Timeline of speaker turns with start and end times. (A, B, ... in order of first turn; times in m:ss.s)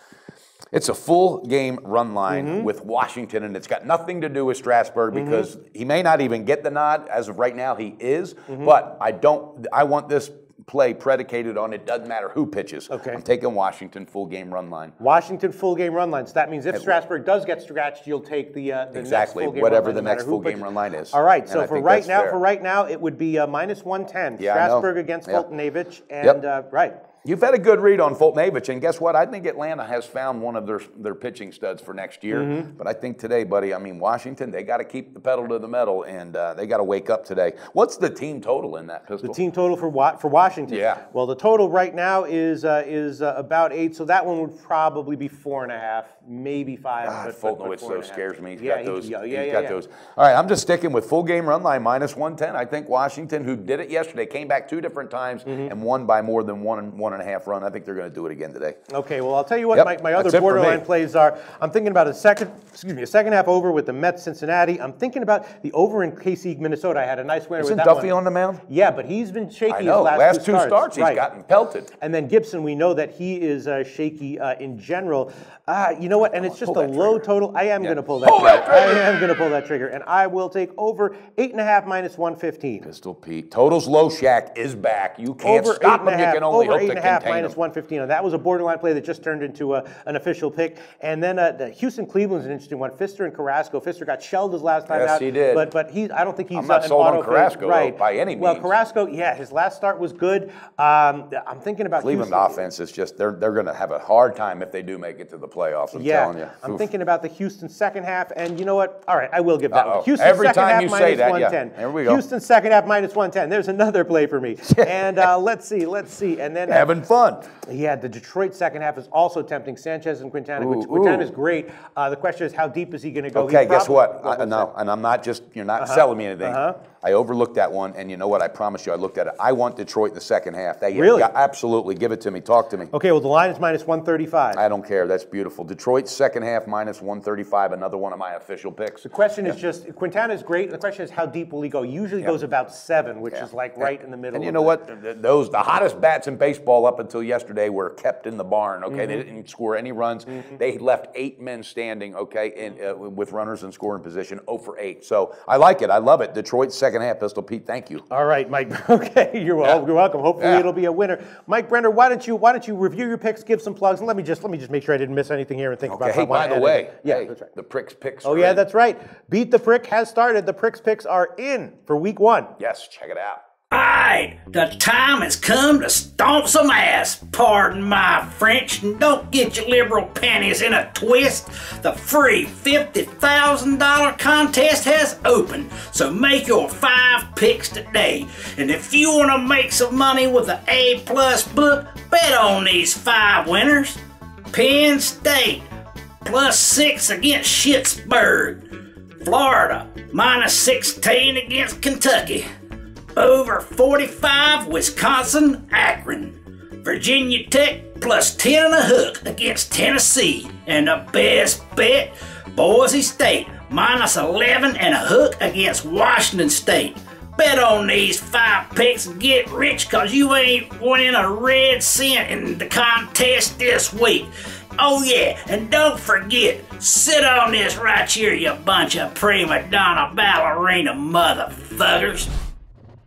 0:00.7-0:15.0 A
0:02.3-0:02.7 B
0:05.1-0:05.5 B
0:12.9-0:13.2 B
0:15.0-0:27.0 B
0:18.9-0:22.4 A
0:24.4-0:25.5 A
0:27.2-0:39.4 A
0:32.3-0:32.7 B
0:39.2-0:49.8 B
0:40.7-0:41.0 A
0:47.0-0:58.8 A
0:55.5-0:55.7 B
0:58.9-1:11.2 B
0:59.7-1:00.8 A
1:07.6-1:08.6 A
1:09.7-1:11.9 A
1:12.0-1:22.9 B
1:16.2-1:17.2 A
1:17.8-1:19.1 A
1:22.8-1:27.6 A
1:25.4-1:42.7 B
1:34.9-1:35.7 A
1:36.5-1:38.7 A
1:42.0-1:46.9 A
1:45.9-1:56.9 B
1:49.7-1:52.2 A
1:54.7-1:55.2 A
1:56.7-1:57.4 A
1:57.6-2:04.7 B
2:00.6-2:01.3 A
2:03.3-2:12.9 A
2:05.8-2:06.8 B
2:10.9-2:11.3 B
2:12.9-2:14.6 B
2:14.5-2:19.6 A
2:19.0-2:24.8 B
2:23.3-2:38.0 A
2:28.9-2:29.2 B
2:38.1-2:47.5 B
2:40.4-2:40.7 A
2:45.8-2:48.6 A
2:48.2-2:52.5 B
2:52.6-2:53.4 A
2:53.7-3:14.0 C
3:14.5-3:15.7 C
3:16.2-3:18.7 C
3:19.2-3:22.5 C
3:23.2-3:52.3 C